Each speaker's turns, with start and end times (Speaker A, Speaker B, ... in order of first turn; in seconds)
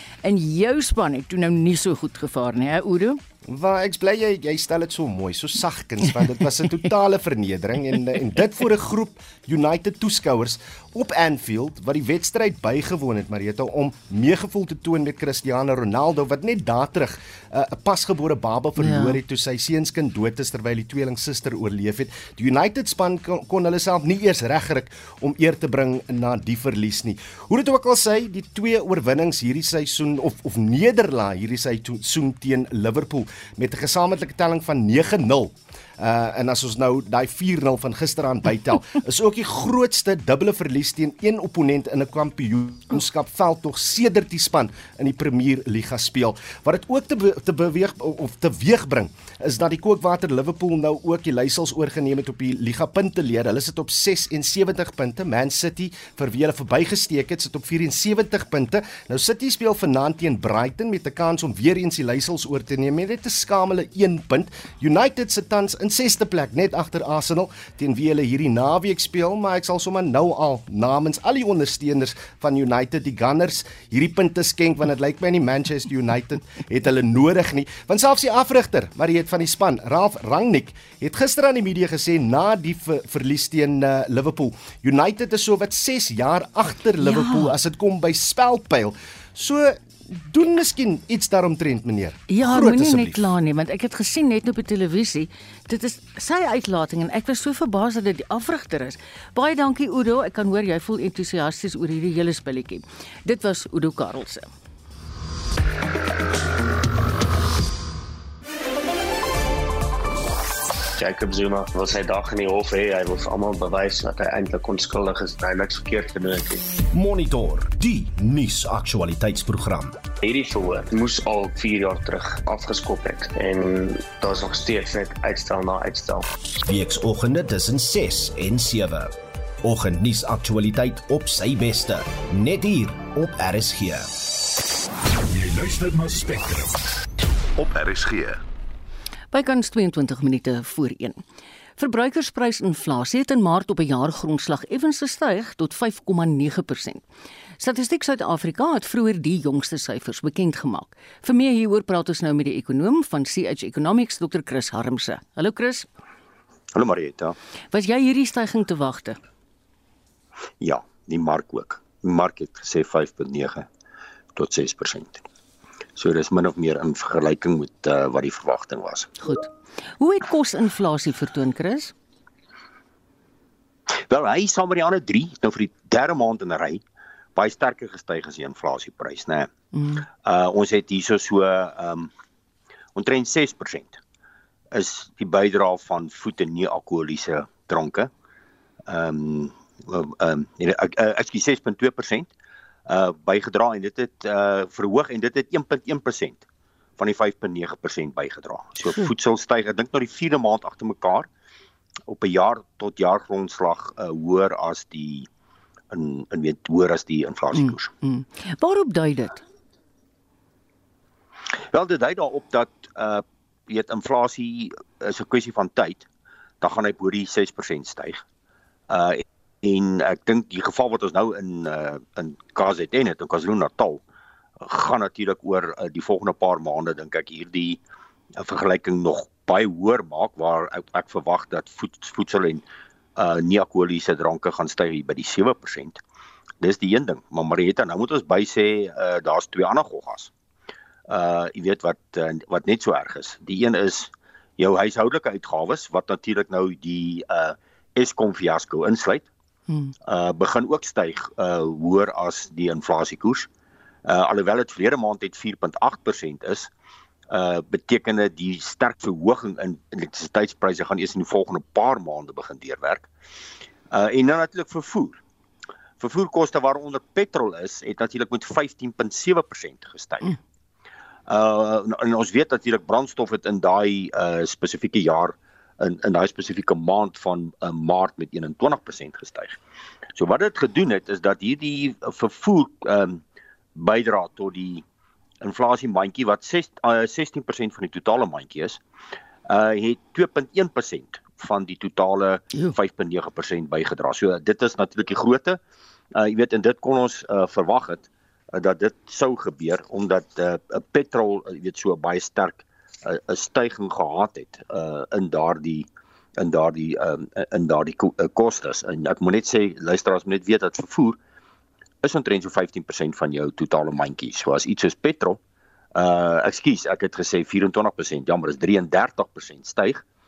Speaker A: 0.2-3.2, 18.8-19.2, 87.0-87.5, 92.3-104.5, 139.3-141.2, 141.8-147.0, 147.6-155.9, 157.7-159.2, 169.2-171.9, 179.7-180.1, 198.9-199.1, 207.6-209.4, 249.7-249.9
Speaker B: 3.5-93.3, 117.0-119.9, 126.9-129.0, 129.7-133.9
Speaker C: 111.0-116.6, 120.2-126.3
Speaker D: 135.3-136.8, 137.6-138.4
Speaker E: 156.8-157.3, 160.6-163.7, 164.3-165.2, 166.0-169.1, 174.1-176.8, 177.3-179.5, 180.2-182.1, 182.9-184.0, 184.7-188.1, 188.9-192.3, 192.9-196.4, 197.0-201.3, 202.1-205.3, 205.9-207.9, 211.7-216.1, 216.6-218.2, 218.9-224.0, 224.6-227.8, 228.4-232.7, 233.2-236.0, 236.6-240.3, 241.1-249.3, 250.1-253.5, 254.1-256.7, 257.3-263.1, 263.9-265.2, 266.0-270.4, 271.3-279.6, 280.1-283.2, 283.8-284.9, 285.4-288.8, 289.5-295.6, 296.1-311.2, 312.0-315.4, 315.9-320.0